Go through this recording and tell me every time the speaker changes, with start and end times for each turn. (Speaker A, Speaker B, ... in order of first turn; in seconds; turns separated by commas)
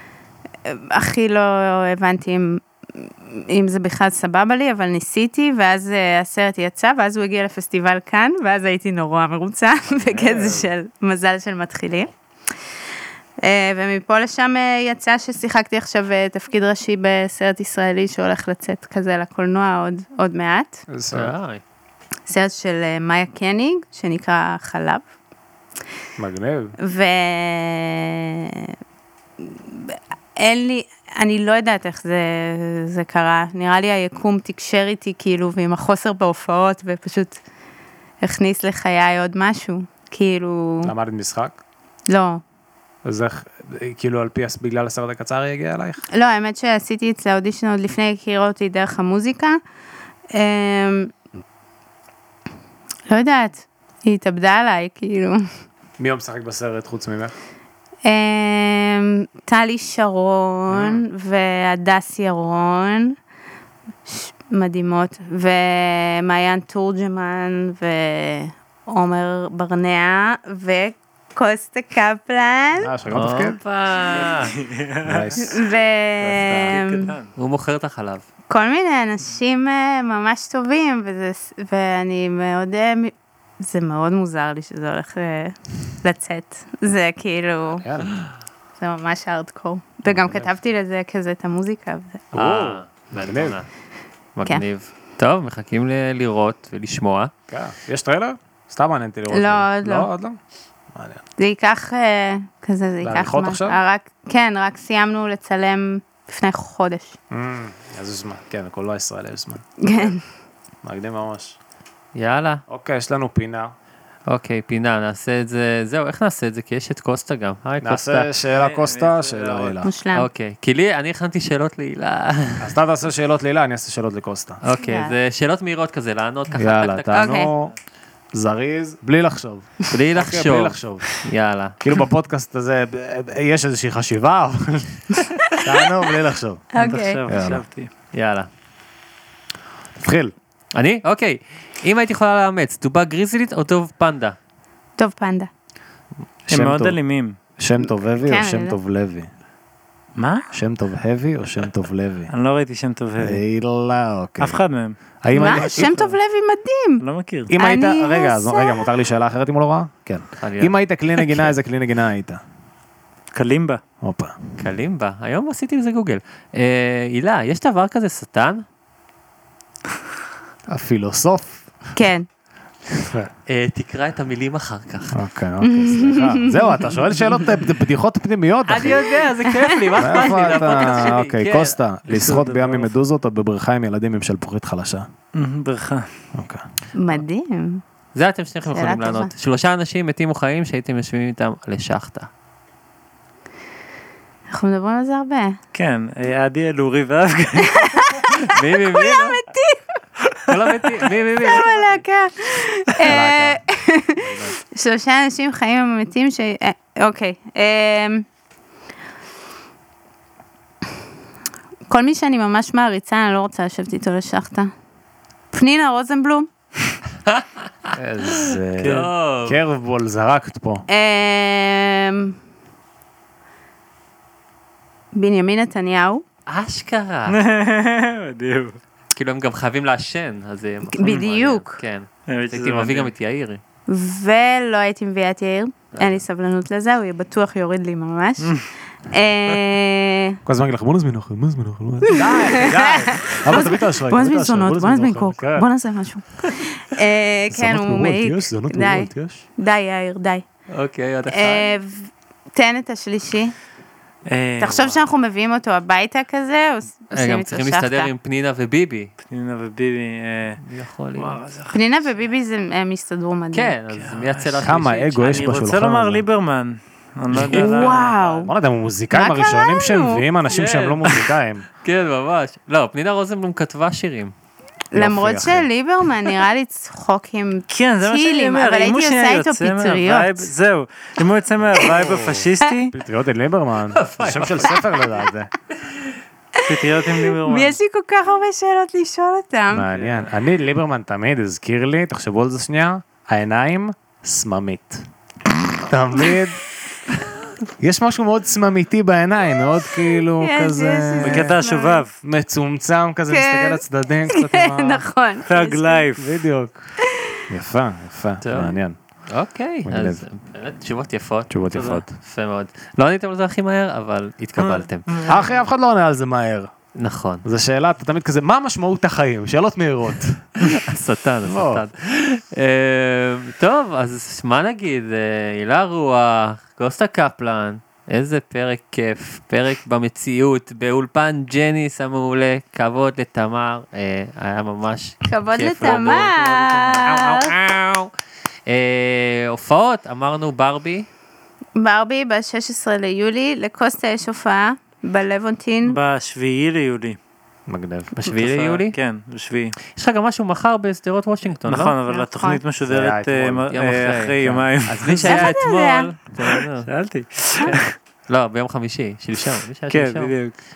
Speaker A: 0.7-12.1, Speaker B: 9.9-10.7, Speaker A: 13.4-20.8, Speaker B: 20.9-21.3, Speaker C: 21.1-21.6, Speaker A: 22.3-25.0, Speaker B: 26.2-26.7, Speaker A: 26.8-28.7, Speaker A: 29.4-37.4, Speaker A: 38.2-40.9, Speaker B: 40.8-41.6, Speaker A: 42.1-42.4, Speaker B: 43.0-46.0, Speaker A: 46.1-49.6, Speaker A: 50.3-51.1, Speaker A: 53.1-55.4, Speaker B: 56.0-57.3, Speaker A: 58.0-63.1, Speaker A: 64.0-72.9, Speaker B: 72.8-73.6, Speaker C: 73.1-74.5, Speaker D: 74.1-75.5, Speaker B: 75.0-75.5, Speaker A: 75.4-77.1, Speaker C: 76.3-76.8, Speaker D: 76.7-77.3, Speaker C: 77.3-78.2, Speaker A: 78.5-87.8, Speaker B: 87.8-88.2, Speaker A: 88.8-92.2, Speaker B: 90.0-90.5, Speaker B: 92.3-93.6, Speaker C: 92.3-93.7, Speaker C: 94.3-97.3, Speaker B: 97.5-100.4, Speaker A: 99.3-100.1, Speaker B: 100.9-101.2, Speaker A: 101.4-107.2, Speaker B: 103.0-103.8, Speaker B: 107.3-109.8, Speaker A: 109.8-110.2, Speaker B: 110.8-111.6, Speaker C: 112.1-112.6, Speaker B: 112.7-113.7, Speaker C: 114.3-118.3, Speaker B: 117.8-119.9, Speaker D: 118.5-119.8, Speaker A: 119.8-120.3, Speaker C: 120.1-122.7, Speaker B: 122.6-124.6, Speaker C: 124.6-127.3, Speaker A: 124.8-125.1, Speaker B: 126.5-127.7, Speaker A: 127.1-127.5, Speaker B: 128.3-131.2, Speaker C: 129.9-131.8, Speaker B: 131.8-136.7, Speaker A: 136.7-137.2, Speaker D: 136.8-137.9, Speaker B: 137.2-137.6, Speaker C: 138.1-138.5, Speaker B: 139.9-140.3, Speaker C: 140.7-144.3, Speaker A: 145.0-145.5, Speaker B: 146.5-147.0, Speaker D: 146.5-147.3, Speaker B: 147.6-149.3, Speaker A: 148.2-148.8, Speaker D: 150.2-150.5, Speaker B: 150.5-152.3, Speaker D: 152.3-153.4, Speaker B: 153.2-154.6, Speaker D: 154.4-156.2, Speaker B: 155.2-155.9, Speaker A: 155.3-157.0, Speaker D: 157.0-157.5, Speaker B: 157.5-162.4, Speaker A: 157.6-158.8, Speaker C: 160.4-160.7, Speaker D: 163.3-163.8, Speaker B: 164.0-164.3, Speaker C: 164.6-168.6, Speaker B: 170.7-171.6, Speaker A: 171.9-172.2, Speaker B: 172.9-173.3, Speaker C: 173.5-175.2, Speaker B: 175.1-179.1, Speaker A: 175.6-176.8, Speaker C: 178.7-181.8, Speaker A: 178.9-179.9, Speaker B: 180.0-185.1, Speaker D: 182.1-182.9, Speaker D: 185.3-186.1, Speaker B: 186.3-186.6, Speaker A: 186.9-187.8, Speaker C: 188.1-192.3, Speaker A: 188.7-189.3, Speaker A: 194.5-195.6, Speaker D: 195.7-198.2, Speaker A: 197.8-199.8, Speaker C: 198.5-199.4, Speaker C: 200.5-202.0, Speaker A: 201.4-208.2, Speaker B: 203.0-203.6, Speaker B: 204.2-204.6, Speaker A: 211.9-214.7, Speaker A: 215.5-216.5, Speaker B: 217.9-220.8, Speaker D: 218.8-219.1, Speaker C: 218.8-219.6, Speaker A: 220.9-222.3, Speaker A: 225.1-226.2, Speaker C: 226.5-227.4, Speaker D: 227.3-228.8, Speaker C: 229.1-233.6, Speaker A: 230.9-231.8, Speaker D: 232.3-233.1, Speaker A: 233.9-238.5, Speaker C: 235.9-236.2, Speaker A: 239.1-240.4, Speaker B: 240.4-245.7, Speaker A: 242.1-250.4, Speaker B: 247.5-249.4, Speaker C: 250.7-251.7, Speaker A: 251.3-253.5, Speaker D: 254.2-255.0, Speaker A: 254.6-258.1, Speaker C: 257.1-259.1, Speaker D: 259.3-260.6, Speaker C: 260.6-261.4, Speaker D: 261.1-261.8, Speaker A: 261.7-263.7, Speaker C: 263.5-265.4, Speaker D: 263.9-268.4, Speaker B: 264.6-266.2, Speaker C: 267.3-268.0, Speaker A: 267.5-268.5, Speaker B: 268.5-271.6, Speaker A: 269.1-270.2, Speaker C: 270.5-271.3, Speaker C: 271.8-274.3, Speaker A: 274.9-280.5, Speaker B: 274.9-275.7, Speaker D: 277.7-282.9, Speaker B: 281.7-285.5, Speaker C: 284.0-285.0, Speaker D: 286.6-287.8, Speaker A: 287.3-289.9, Speaker B: 289.7-295.1, Speaker B: 295.8-296.6, Speaker B: 297.8-301.6, Speaker A: 300.2-302.0, Speaker D: 301.2-302.1, Speaker B: 302.2-305.0, Speaker A: 303.3-306.1, Speaker D: 305.4-306.3, Speaker B: 306.1-306.9, Speaker B: 307.5-309.0, Speaker C: 308.4-308.8, Speaker C: 309.3-315.3, Speaker B: 309.8-310.2, Speaker B: 311.5-312.1, Speaker D: 314.6-315.5, Speaker B: 315.2-316.7, Speaker C: 316.9-317.4, Speaker B: 317.4-320.4, Speaker C: 320.6-338.1, Speaker B: 321.4-321.8, Speaker A: 335.3-337.5, Speaker D: 335.8-337.0, Speaker C: 338.6-341.1, Speaker A: 341.8-346.0, Speaker D: 345.9-347.2, Speaker B: 347.7-348.1, Speaker C: 348.1-348.9, Speaker D: 348.3-349.8, Speaker C: 349.9-351.9, Speaker D: 351.7-355.5, Speaker A: 352.1-352.6, Speaker B: 352.8-353.7, Speaker C: 353.7-356.9, Speaker A: 355.3-356.1, Speaker D: 356.5-357.9, Speaker C: 357.6-360.4, Speaker D: 359.9-360.5